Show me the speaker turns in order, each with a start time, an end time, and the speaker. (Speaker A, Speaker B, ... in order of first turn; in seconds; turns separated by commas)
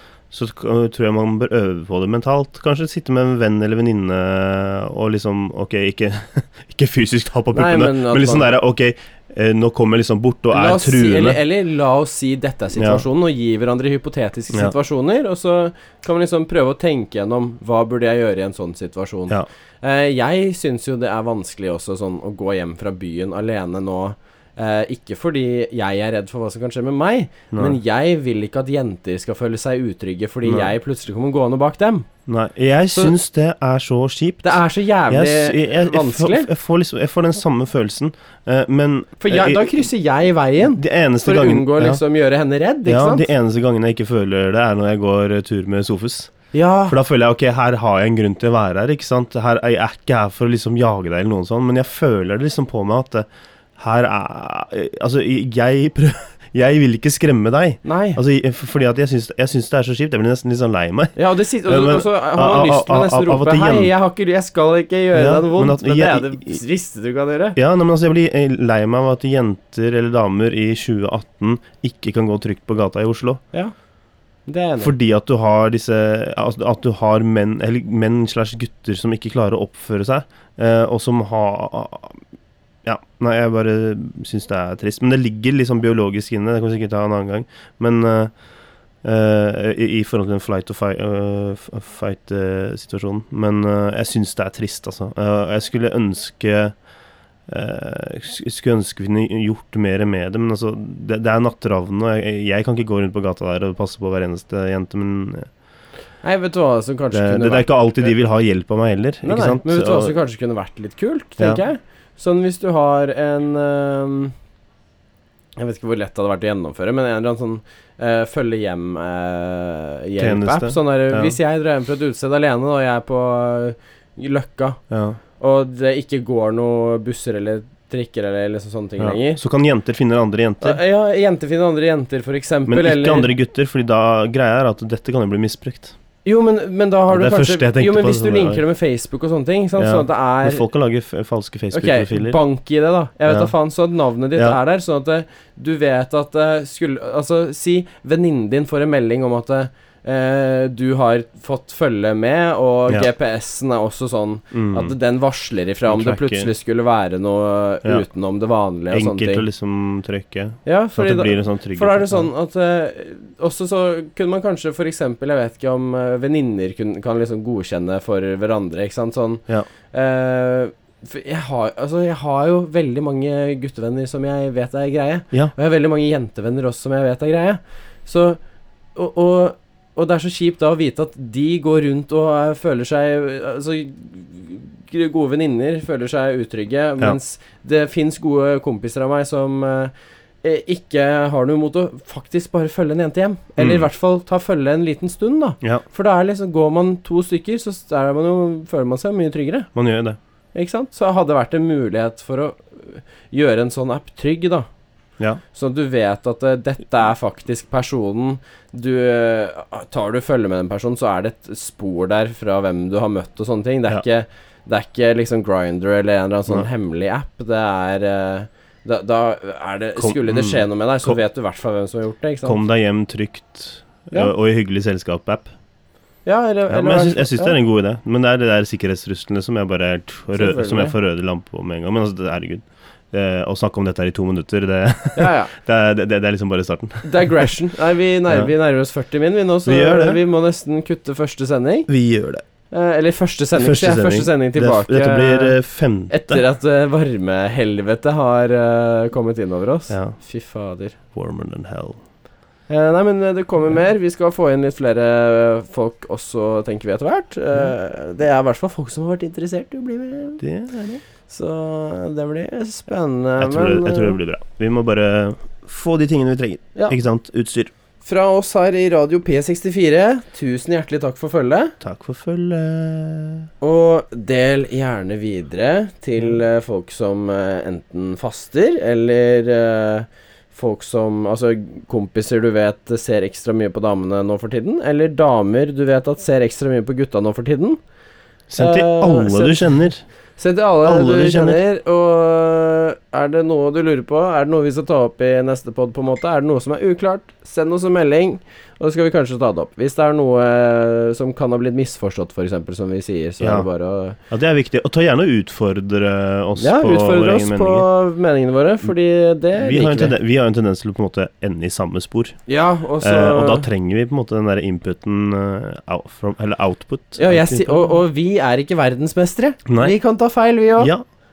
Speaker A: 0.3-11.4, Speaker B: 7.5-8.5, Speaker B: 10.5-32.1, Speaker A: 12.8-13.1, Speaker A: 27.5-27.8, Speaker A: 30.4-30.7, Speaker A: 32.3-39.9, Speaker B: 34.4-36.5, Speaker B: 39.2-43.3, Speaker A: 40.7-42.0, Speaker A: 42.9-46.3, Speaker B: 46.5-47.0, Speaker A: 46.9-63.9, Speaker B: 57.8-58.2, Speaker B: 61.2-67.6, Speaker A: 65.1-66.6, Speaker A: 67.6-73.4, Speaker B: 74.5-74.9, Speaker A: 74.8-82.2, Speaker A: 82.8-88.3, Speaker A: 89.0-96.7, Speaker A: 97.5-105.5, Speaker B: 106.2-107.7, Speaker A: 107.1-110.2, Speaker B: 109.2-114.3, Speaker B: 115.6-124.8, Speaker A: 120.2-121.4, Speaker A: 124.9-125.2, Speaker B: 125.4-129.4, Speaker A: 129.0-130.8, Speaker B: 130.6-133.3, Speaker A: 132.7-135.9, Speaker B: 136.2-140.7, Speaker A: 137.1-138.6, Speaker A: 139.8-142.4, Speaker B: 141.7-159.5, Speaker A: 143.3-143.5, Speaker A: 154.5-154.9, Speaker A: 155.9-156.5, Speaker A: 158.9-162.3, Speaker B: 160.7-178.4, Speaker B: 178.9-189.9, Speaker B: 190.4-199.7, Speaker A: 193.6-193.9, Speaker A: 199.8-200.2, Speaker B: 200.6-204.7, Speaker B: 205.5-222.6, Speaker A: 220.0-221.2, Speaker A: 222.4-225.5, Speaker B: 226.2-227.6, Speaker A: 226.7-237.5, Speaker B: 230.4-230.9, Speaker B: 235.2-235.5, Speaker B: 237.0-241.9, Speaker A: 239.7-240.2, Speaker A: 241.9-242.4, Speaker B: 242.7-245.6, Speaker A: 243.6-246.4, Speaker B: 246.1-251.0, Speaker A: 249.9-250.2, Speaker A: 251.1-252.0, Speaker B: 252.7-260.4, Speaker A: 260.4-261.0, Speaker B: 261.3-264.2, Speaker A: 263.4-267.7, Speaker B: 268.1-271.8, Speaker A: 271.8-273.5, Speaker B: 273.6-287.8, Speaker A: 288.5-290.0, Speaker B: 288.6-289.7, Speaker B: 290.4-304.2, Speaker A: 290.8-291.6, Speaker A: 303.4-303.7, Speaker A: 304.3-307.9, Speaker B: 306.6-310.2, Speaker A: 309.6-312.4, Speaker B: 312.5-313.7, Speaker A: 313.0-317.9, Speaker B: 317.2-320.9, Speaker A: 319.7-319.9, Speaker A: 320.8-321.1